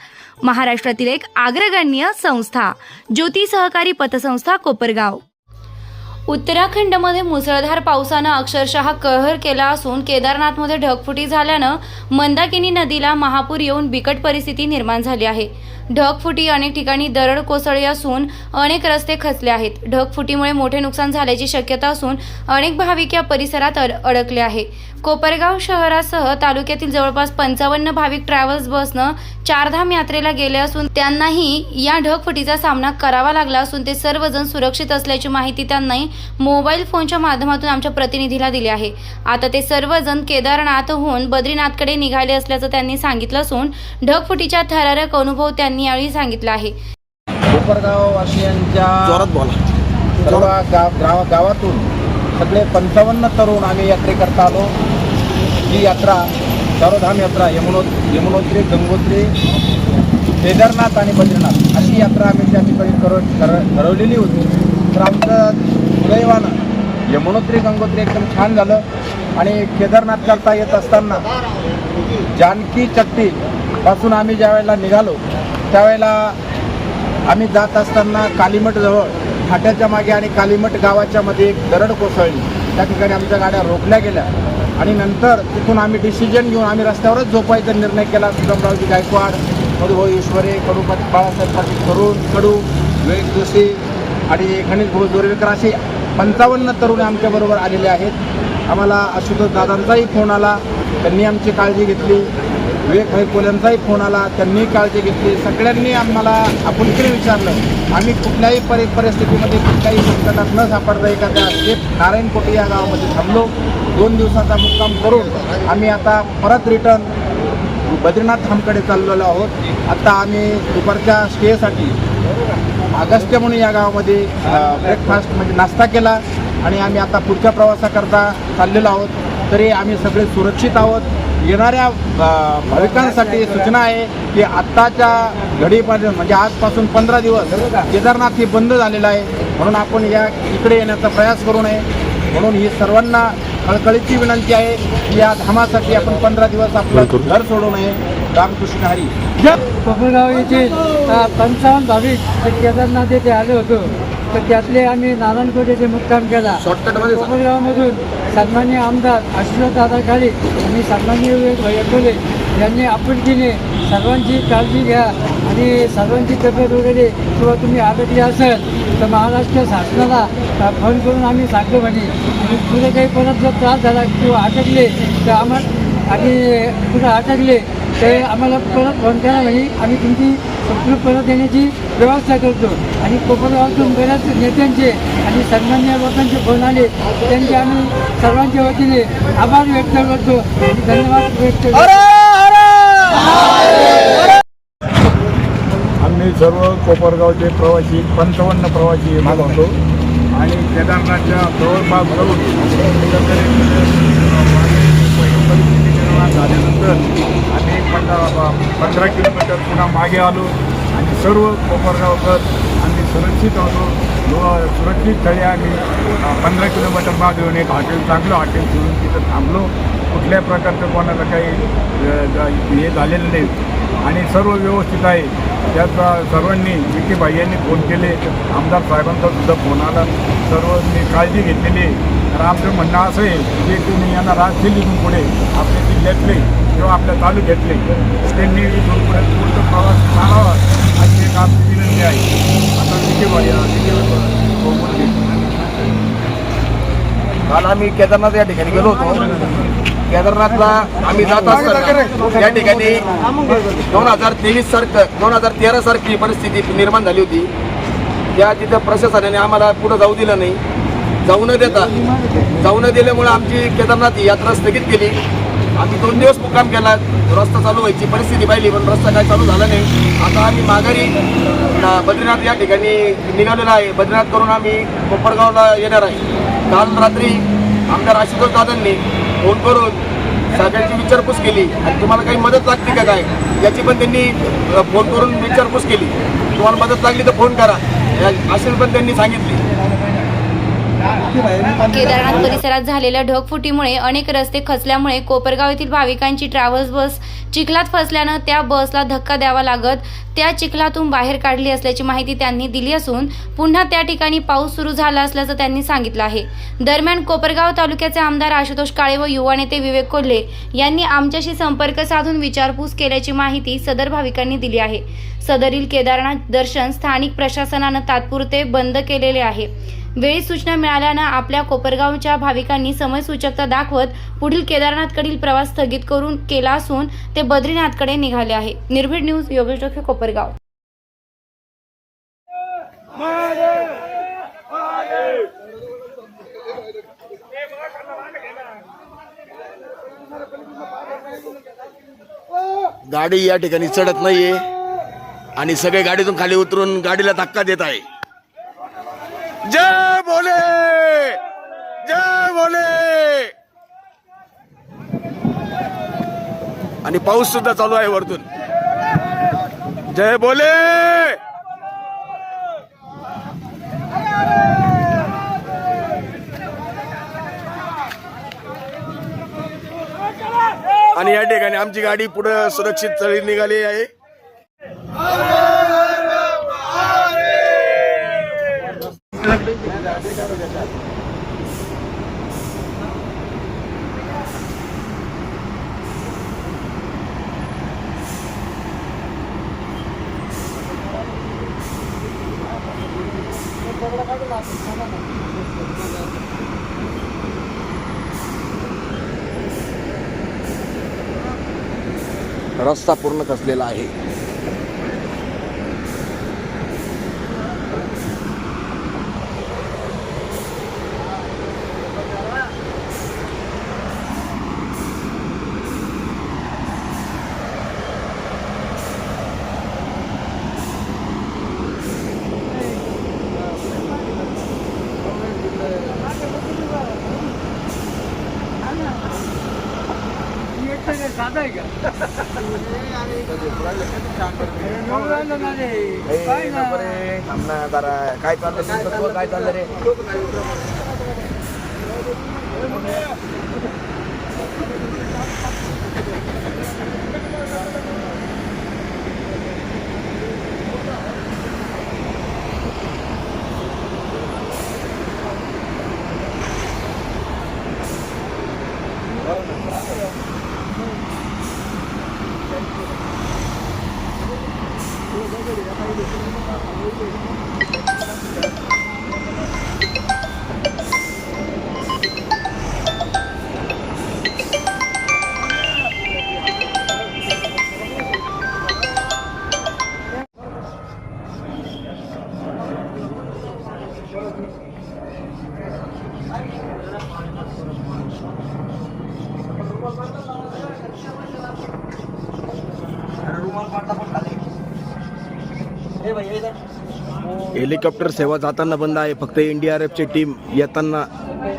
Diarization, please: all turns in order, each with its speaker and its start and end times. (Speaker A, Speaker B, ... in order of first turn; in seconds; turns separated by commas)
Speaker A: 0.4-5.2, Speaker A: 6.3-46.8, Speaker B: 47.5-49.3, Speaker C: 49.0-49.6, Speaker B: 50.2-54.7, Speaker C: 50.2-50.5, Speaker B: 55.7-56.3, Speaker B: 56.8-59.3, Speaker B: 60.4-66.6, Speaker B: 67.1-68.8, Speaker B: 69.4-71.2, Speaker B: 72.4-75.2, Speaker B: 75.7-76.4, Speaker B: 77.3-98.2, Speaker B: 98.7-102.3, Speaker B: 102.9-117.1, Speaker B: 117.9-122.0, Speaker B: 122.9-149.1, Speaker D: 149.6-192.0, Speaker C: 156.6-157.4, Speaker E: 196.0-199.7, Speaker B: 199.2-199.6, Speaker E: 200.3-223.5, Speaker E: 224.0-242.2, Speaker E: 242.8-245.3, Speaker C: 247.5-249.5, Speaker C: 250.1-253.1, Speaker C: 253.9-257.5, Speaker C: 258.4-260.6, Speaker C: 261.2-262.0, Speaker C: 262.6-265.2, Speaker C: 265.8-271.2, Speaker C: 271.7-280.0, Speaker C: 280.5-289.6, Speaker A: 291.8-330.6, Speaker C: 343.1-344.7, Speaker C: 345.6-348.1, Speaker C: 349.7-351.4, Speaker C: 352.0-353.5, Speaker C: 357.0-358.4, Speaker C: 360.1-361.4, Speaker C: 371.1-374.1, Speaker C: 380.3-380.6, Speaker C: 402.8-404.1, Speaker D: 430.8-431.9, Speaker C: 433.5-434.7, Speaker D: 434.9-437.0, Speaker C: 436.3-439.9, Speaker C: 493.5-494.4, Speaker C: 497.8-501.3